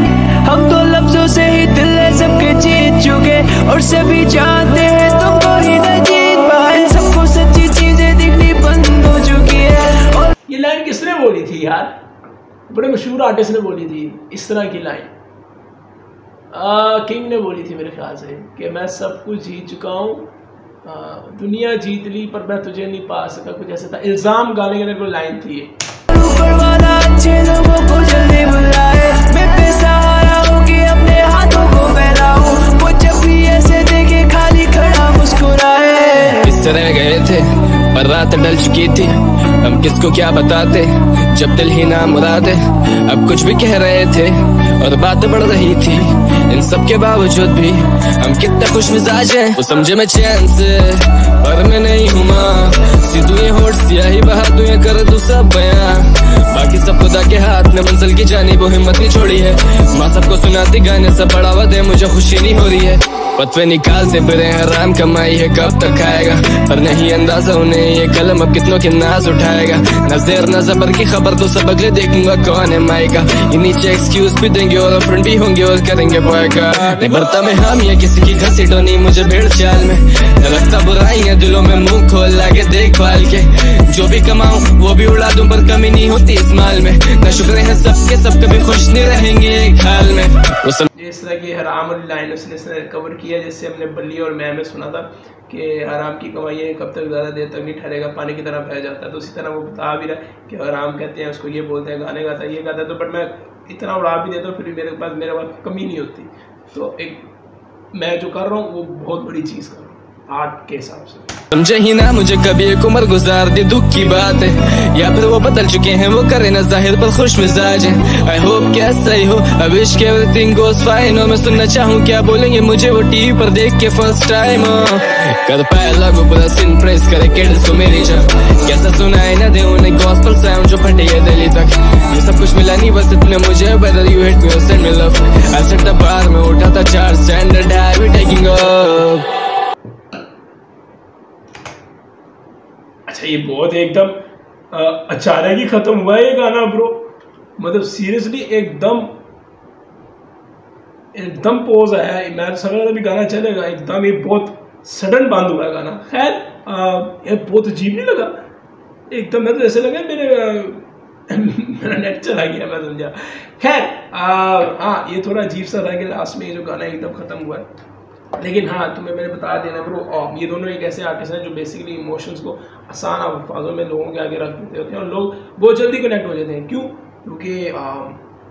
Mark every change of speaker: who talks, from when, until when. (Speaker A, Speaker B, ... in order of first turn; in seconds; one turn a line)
Speaker A: 0.1-10.3
Speaker B: 10.5-11.9
Speaker B: 12.7-15.1
Speaker B: 16.5-20.3
Speaker B: 20.8-25.7
Speaker A: 26.1-36.5
Speaker C: 36.4-90.9
Speaker B: 90.9-107.2
Speaker B: 107.9-111.3
Speaker C: 111.5-139.2
Speaker B: 143.1-144.2
Speaker B: 144.7-149.1
Speaker B: 151.1-158.3
Speaker B: 159.1-167.7
Speaker B: 168.4-178.2